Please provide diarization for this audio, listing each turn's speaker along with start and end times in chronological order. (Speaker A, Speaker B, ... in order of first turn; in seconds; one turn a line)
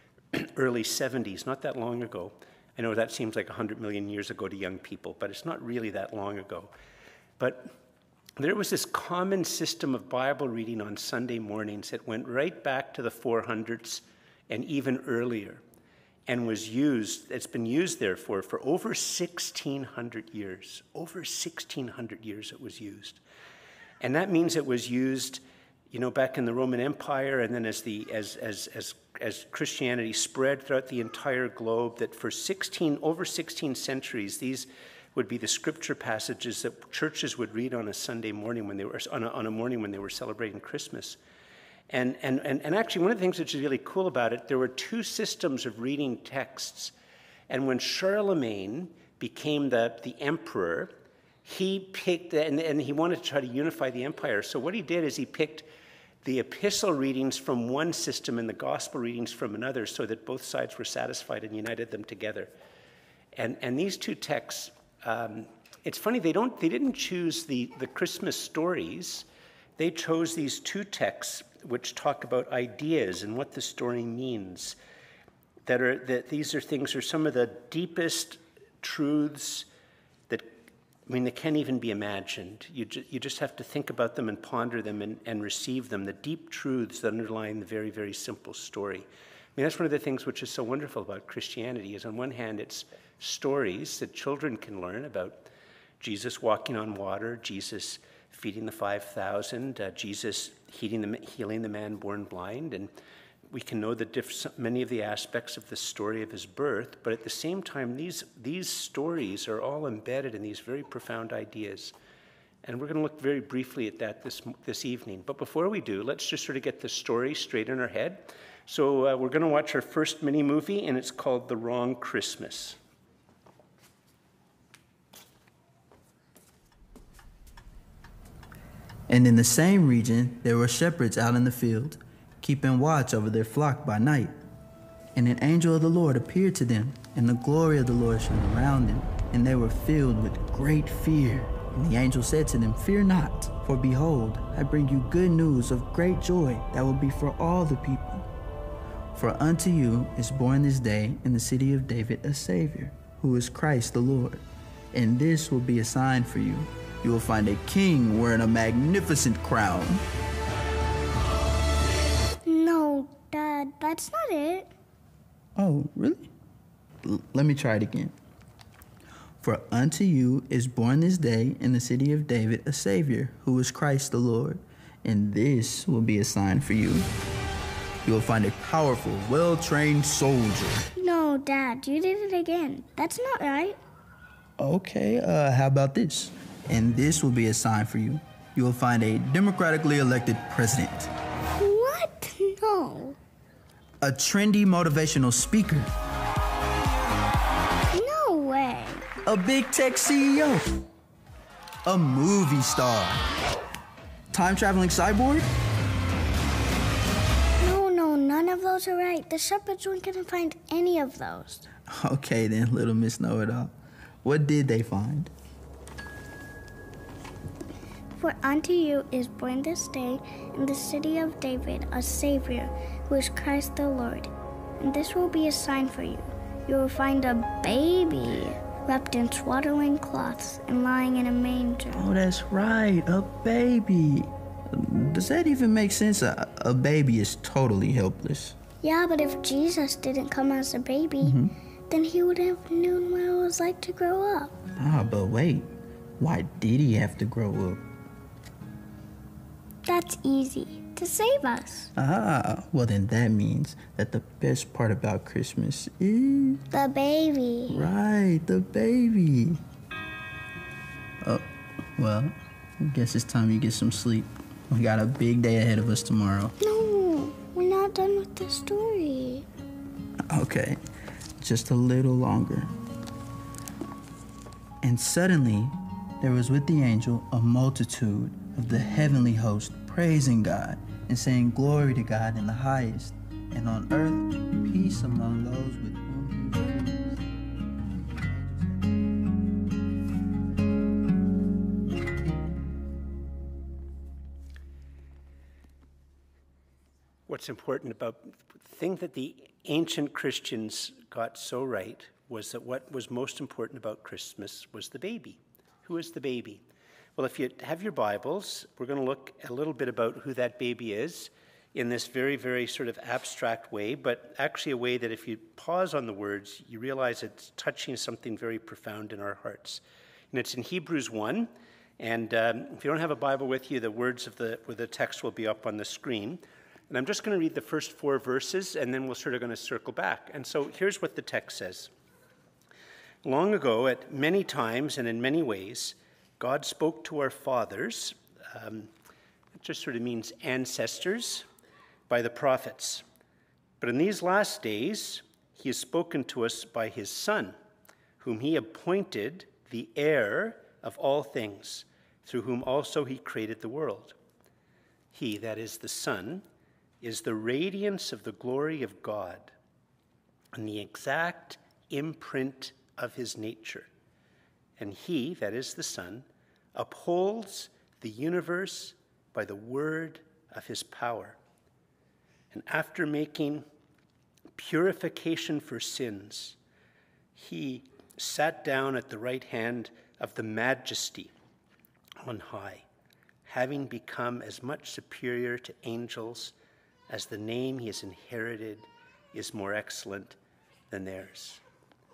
Speaker A: 0.3-6.7
Speaker A: 7.4-7.8
Speaker A: 8.4-15.6
Speaker A: 16.3-23.2
Speaker A: 24.0-41.2
Speaker A: 41.9-46.9
Speaker A: 47.5-50.9
Speaker A: 51.5-55.7
Speaker A: 56.2-62.5
Speaker A: 63.4-69.3
Speaker A: 69.8-74.8
Speaker A: 75.7-79.7
Speaker A: 80.3-95.5
Speaker A: 96.0-102.9
Speaker A: 103.5-112.0
Speaker A: 112.6-122.8
Speaker B: 129.1-134.4
Speaker B: 135.2-148.3
Speaker B: 149.2-160.0
Speaker C: 162.5-164.7
Speaker B: 165.6-166.3
Speaker B: 167.0-168.1
Speaker B: 169.4-177.1
Speaker B: 178.1-180.9
Speaker C: 181.0-183.8
Speaker B: 184.6-191.1
Speaker C: 191.6-193.2
Speaker B: 194.0-195.9
Speaker C: 197.9-199.1
Speaker B: 199.2-200.8
Speaker B: 201.8-203.2
Speaker B: 204.3-205.5
Speaker C: 207.6-211.7
Speaker B: 211.9-215.3
Speaker C: 218.2-232.1
Speaker B: 231.9-238.6
Speaker C: 238.8-241.4
Speaker B: 241.2-241.5
Speaker C: 241.9-244.6
Speaker B: 244.8-245.7
Speaker B: 246.2-247.8
Speaker C: 249.9-251.9
Speaker B: 251.9-256.6
Speaker C: 256.7-257.8
Speaker B: 257.7-259.6
Speaker B: 261.2-266.5
Speaker C: 266.6-269.5
Speaker B: 270.3-270.8
Speaker B: 271.4-272.7
Speaker B: 274.8-288.8
Speaker A: 297.3-306.6
Speaker A: 307.2-331.9
Speaker A: 333.2-338.9
Speaker A: 339.6-341.5
Speaker A: 342.1-343.0
Speaker A: 343.8-347.6
Speaker A: 348.2-354.1
Speaker A: 355.1-356.4
Speaker A: 357.0-359.5
Speaker A: 360.5-363.9
Speaker A: 364.8-371.4
Speaker A: 372.5-373.6
Speaker A: 374.6-376.6
Speaker A: 377.4-381.3
Speaker A: 382.2-382.9
Speaker A: 383.5-386.5
Speaker A: 387.1-390.4
Speaker A: 390.9-391.6